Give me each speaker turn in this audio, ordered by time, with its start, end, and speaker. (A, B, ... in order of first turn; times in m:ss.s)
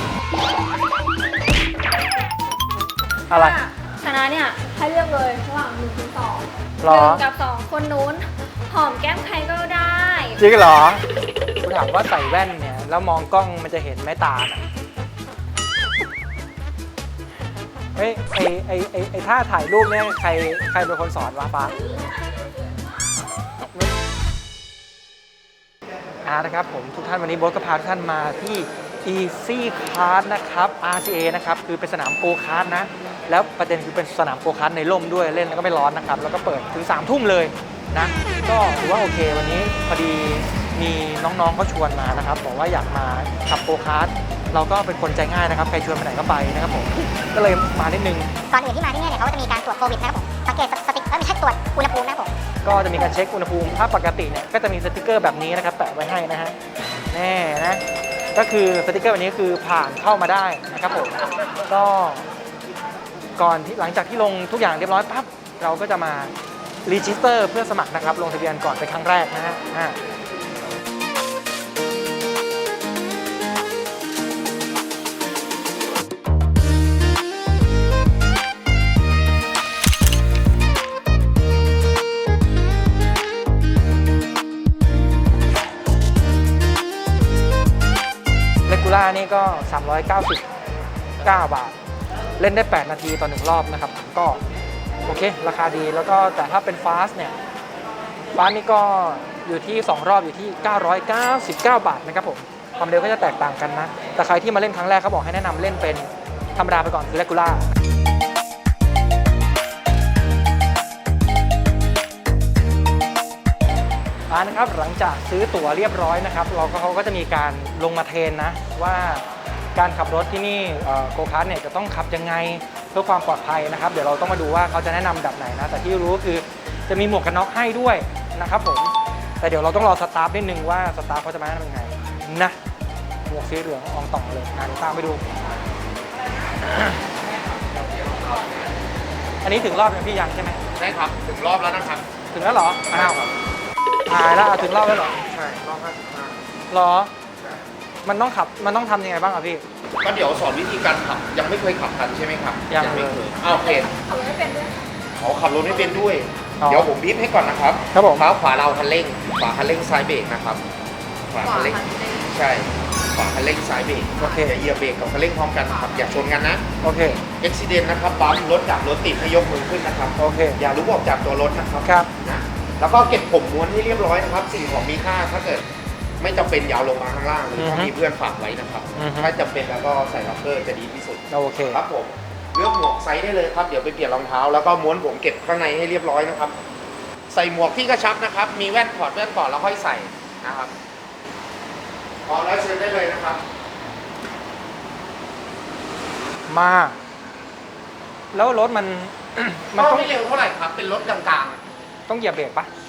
0:03.3-0:10.4 A
0:03.3-0:03.6 B
0:06.8-0:07.2 B
0:10.4-0:11.0 B
0:11.6-0:14.6 B
0:17.9-0:21.8 B
0:21.8-0:22.8 A
0:23.6-0:23.9 B
0:26.2-0:48.3 B
0:48.5-0:52.3 C
0:52.6-0:56.6 B
0:57.1-0:57.8 B
0:58.3-1:01.2 B
1:01.7-1:02.2 B
1:03.4-1:06.3 B
1:06.8-1:10.0 B
1:28.7-1:30.4 B
1:31.2-1:31.7 B
1:32.4-1:34.4 B
1:35.0-1:37.3 B
1:38.3-1:47.7 B
1:54.3-2:12.6 B
2:13.3-2:15.2 B
2:16.6-2:17.0 B
2:17.2-2:18.8 D
2:19.4-2:20.6 B
2:20.8-2:22.0 D
2:22.3-2:23.2 B
2:22.9-2:23.3 D
2:24.1-2:25.2 B
2:25.2-2:26.4 D
2:26.7-2:27.1 B
2:28.0-2:29.6 B
2:30.0-2:33.9 D
2:32.7-2:33.2 B
2:33.4-2:34.9 A
2:35.2-2:40.6 D
2:36.6-2:36.9 B
2:37.9-2:38.3 B
2:41.3-2:46.6 D
2:44.2-2:44.6 B
2:46.8-2:47.2 B
2:47.3-2:55.6 D
2:50.2-2:50.6 B
2:56.2-3:06.6 D
2:57.6-2:57.9 B
2:59.0-2:59.3 B
3:01.3-3:01.8 B
3:07.3-3:10.7 D
3:12.2-3:13.4 D
3:16.5-3:17.0 B
3:18.3-3:20.1 B
3:19.7-3:21.6 D
3:22.1-3:22.7 B